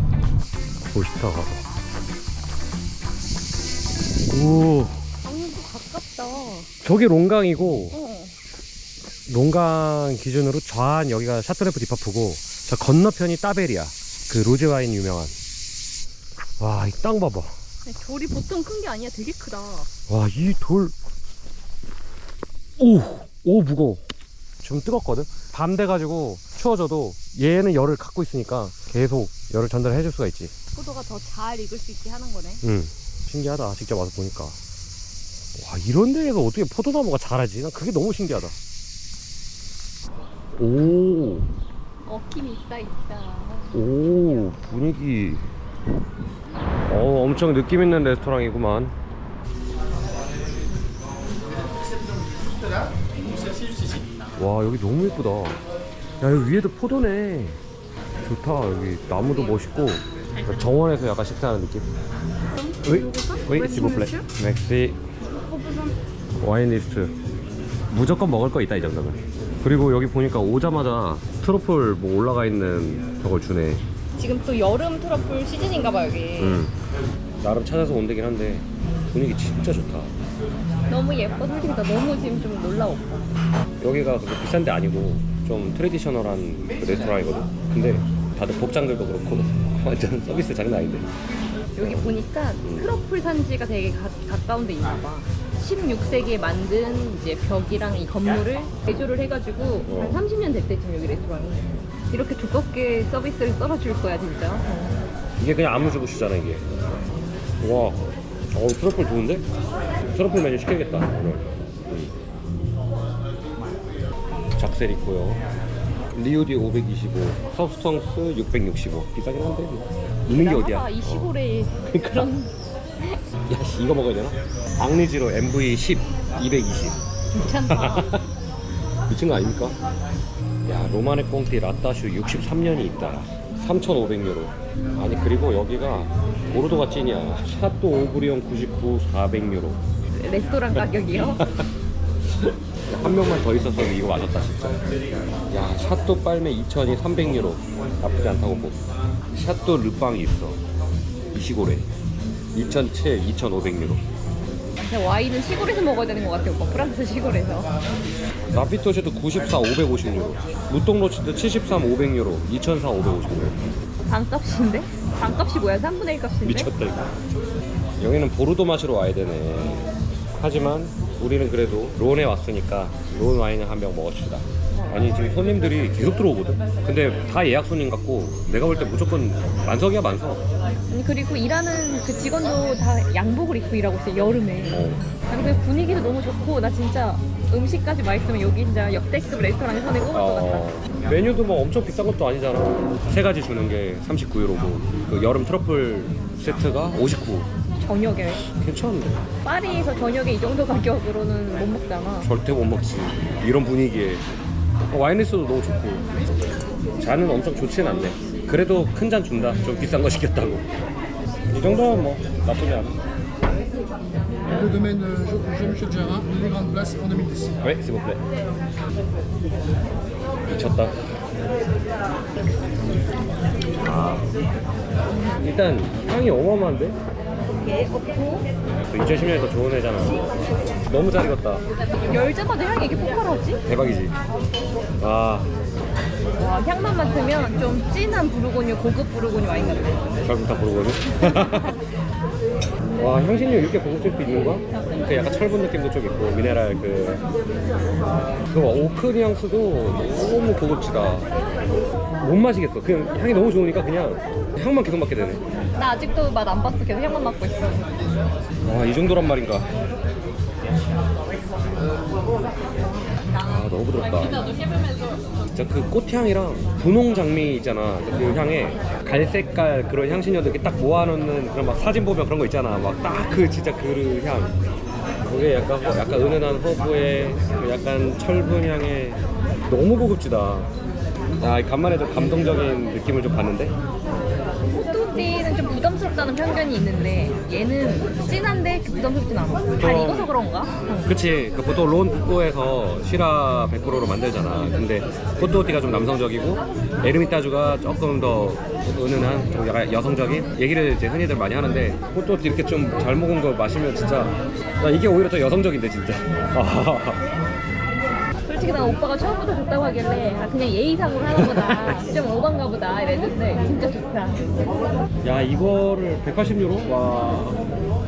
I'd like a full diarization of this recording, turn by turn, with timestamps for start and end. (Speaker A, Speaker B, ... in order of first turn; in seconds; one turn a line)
Speaker A: 0.9-1.6
Speaker A: 4.3-5.0
Speaker B: 5.2-6.7
Speaker A: 6.8-8.0
Speaker B: 7.9-8.4
Speaker A: 9.3-15.3
Speaker A: 16.6-17.6
Speaker B: 17.9-19.9
Speaker A: 20.1-20.9
Speaker A: 22.8-24.0
Speaker A: 24.6-30.5
Speaker B: 30.8-32.6
Speaker A: 32.6-34.6
Speaker A: 35.5-38.5
Speaker A: 40.6-41.5
Speaker B: 42.0-43.8
Speaker A: 43.7-45.5
Speaker A: 46.9-48.9
Speaker A: 54.4-55.6
Speaker A: 56.2-57.6
Speaker A: 58.2-61.9
Speaker B: 62.6-64.3
Speaker A: 62.8-65.0
Speaker B: 65.4-65.9
Speaker A: 66.4-67.1
Speaker A: 67.9-73.8
Speaker B: 74.2-76.6
Speaker A: 76.4-76.7
Speaker A: 77.4-80.1
Speaker B: 80.9-83.2
Speaker A: 83.8-91.1
Speaker B: 91.8-105.0
Speaker A: 91.8-92.1
Speaker A: 92.6-92.9
Speaker A: 99.9-100.2
Speaker A: 105.4-106.7
Speaker A: 107.6-109.5
Speaker A: 110.1-112.1
Speaker A: 114.6-115.4
Speaker A: 116.1-122.3
Speaker B: 120.3-122.5
Speaker A: 123.5-127.0
Speaker B: 127.3-128.2
Speaker A: 127.7-128.3
Speaker A: 129.1-129.8
Speaker A: 130.7-139.8
Speaker B: 140.1-141.4
Speaker A: 141.1-141.7
Speaker A: 142.4-144.8
Speaker A: 145.5-148.8
Speaker A: 149.3-150.6
Speaker A: 151.3-151.9
Speaker A: 152.5-154.0
Speaker B: 154.8-157.7
Speaker A: 158.5-163.6
Speaker B: 164.1-166.7
Speaker A: 166.4-167.1
Speaker A: 168.0-169.9
Speaker A: 170.4-180.4
Speaker B: 180.9-190.7
Speaker A: 184.7-185.0
Speaker A: 190.1-197.5
Speaker B: 197.8-198.4
Speaker A: 198.4-199.2
Speaker B: 199.4-202.3
Speaker A: 202.2-204.2
Speaker A: 204.9-206.2
Speaker A: 207.0-210.7
Speaker B: 209.4-210.0
Speaker A: 211.5-213.0
Speaker B: 214.5-214.8
Speaker C: 214.7-217.5
Speaker A: 217.6-218.2
Speaker A: 220.5-220.9
Speaker A: 223.8-224.3
Speaker B: 225.1-225.5
Speaker A: 225.4-227.0
Speaker B: 227.6-228.5
Speaker A: 228.8-230.3
Speaker A: 230.9-231.7
Speaker B: 232.1-233.6
Speaker A: 233.7-234.2
Speaker A: 235.0-235.5
Speaker B: 236.4-240.2
Speaker A: 239.6-241.7
Speaker A: 243.0-247.2
Speaker A: 248.5-251.3
Speaker A: 252.2-255.4
Speaker B: 255.8-257.9
Speaker A: 258.6-259.7
Speaker A: 263.4-264.4
Speaker A: 265.5-274.6
Speaker A: 275.2-280.7
Speaker A: 281.4-283.8
Speaker B: 284.7-291.1
Speaker A: 289.8-290.3
Speaker A: 291.1-307.2
Speaker B: 308.5-314.7
Speaker A: 311.3-312.1
Speaker A: 315.2-317.6